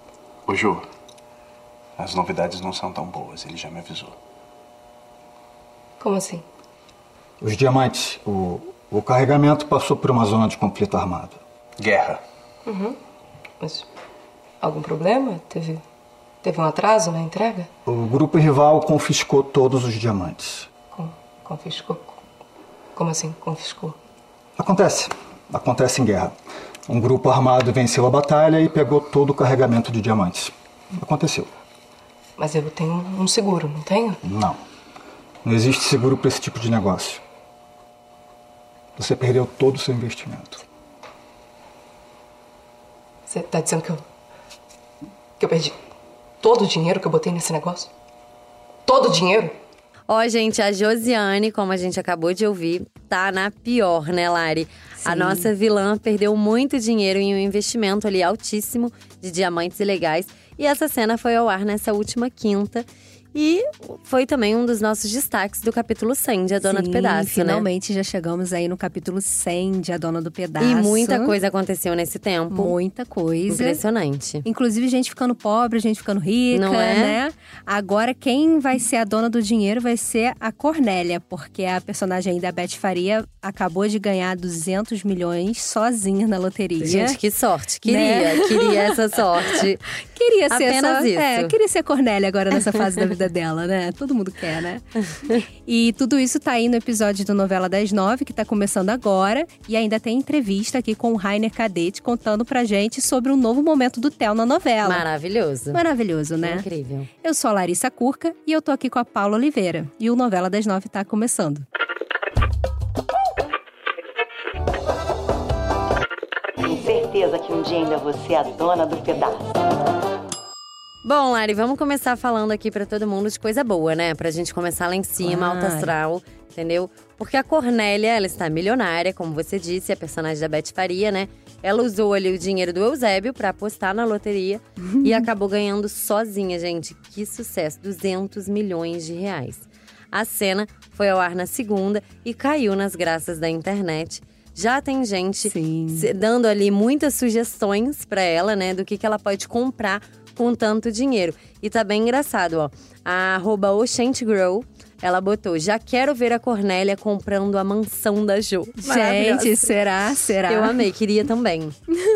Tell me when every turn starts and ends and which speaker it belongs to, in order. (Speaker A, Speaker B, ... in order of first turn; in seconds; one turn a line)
Speaker A: 0.5-0.8
Speaker A: 2.0-4.1
Speaker B: 6.0-6.4
Speaker C: 7.4-11.4
Speaker A: 11.8-12.2
Speaker B: 12.7-13.0
Speaker B: 13.6-13.8
Speaker B: 14.6-15.8
Speaker B: 16.4-17.7
Speaker C: 17.9-20.7
Speaker B: 20.9-22.1
Speaker B: 22.9-23.9
Speaker C: 24.6-26.3
Speaker C: 26.9-31.5
Speaker B: 32.4-34.2
Speaker C: 34.2-34.6
Speaker C: 35.4-37.2
Speaker C: 39.0-40.6
Speaker B: 43.3-44.0
Speaker B: 45.4-45.8
Speaker B: 46.4-47.9
Speaker B: 48.9-49.5
Speaker D: 50.1-67.7
Speaker E: 55.0-55.5
Speaker E: 66.6-71.3
Speaker D: 70.6-72.7
Speaker E: 72.5-73.8
Speaker D: 73.5-74.4
Speaker E: 74.4-87.2
Speaker D: 76.5-77.2
Speaker D: 86.8-89.8
Speaker E: 87.8-88.9
Speaker E: 90.0-105.0
Speaker D: 90.5-91.5
Speaker D: 104.8-105.8
Speaker E: 105.7-106.7
Speaker D: 106.4-107.1
Speaker E: 107.2-111.7
Speaker F: 116.6-119.5
Speaker D: 121.0-159.7
Speaker E: 125.2-125.9
Speaker E: 134.9-135.2
Speaker E: 145.4-146.1
Speaker E: 158.8-160.8
Speaker D: 160.5-161.8